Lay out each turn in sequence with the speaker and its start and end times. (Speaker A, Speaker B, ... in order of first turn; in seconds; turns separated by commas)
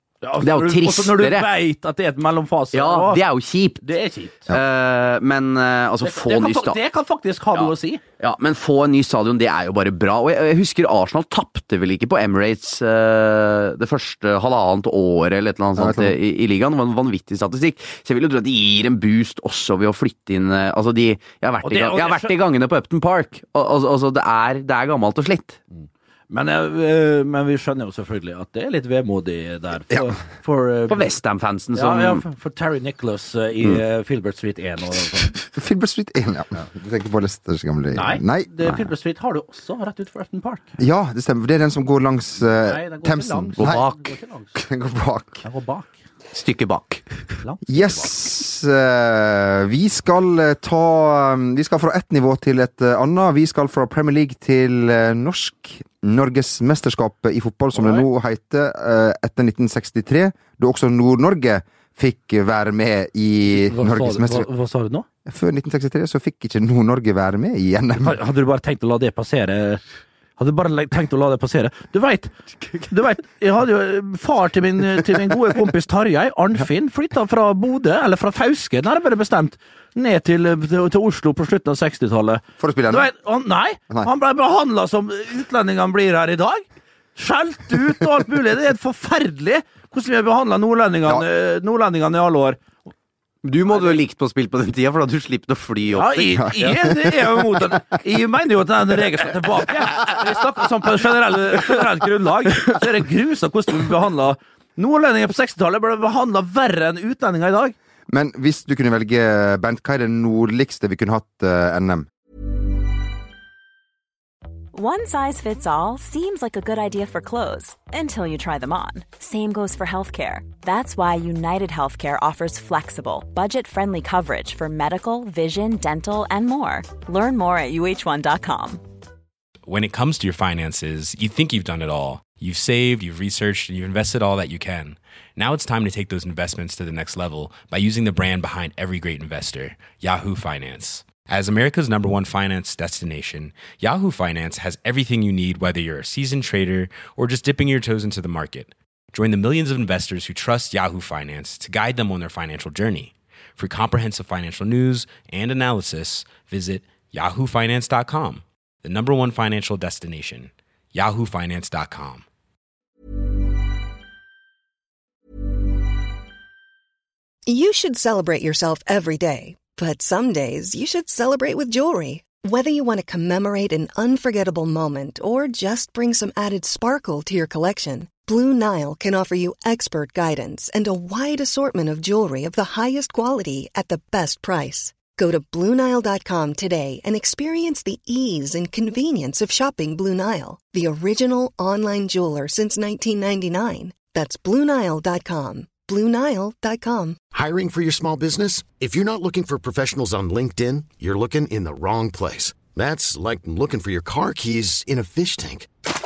Speaker A: 0.2-3.2, Speaker B: 0.4-1.5, Speaker B: 2.7-3.8, Speaker A: 3.8-4.5, Speaker B: 4.5-6.8, Speaker A: 6.0-8.0, Speaker B: 7.5-25.6, Speaker C: 15.8-16.1, Speaker A: 21.6-22.4, Speaker A: 25.8-31.1, Speaker B: 30.9-32.2, Speaker A: 31.8-35.5, Speaker C: 35.6-38.5, Speaker A: 37.9-40.7, Speaker C: 40.8-43.8, Speaker A: 42.4-44.6, Speaker B: 43.6-44.0, Speaker C: 44.5-45.4, Speaker A: 45.4-46.0, Speaker B: 46.3-47.0, Speaker A: 47.4-48.1, Speaker C: 47.7-64.5, Speaker A: 57.8-58.0, Speaker A: 63.5-65.1, Speaker C: 65.3-68.2, Speaker A: 68.0-69.8, Speaker A: 70.4-72.3, Speaker A: 72.9-86.6, Speaker C: 82.6-83.1, Speaker A: 87.2-92.6, Speaker B: 93.4-96.8, Speaker A: 95.9-107.8, Speaker C: 96.4-97.3, Speaker C: 108.1-112.1, Speaker D: 114.7-128.8, Speaker E: 129.7-162.2, Speaker F: 167.5-197.2, Speaker G: 197.3-205.7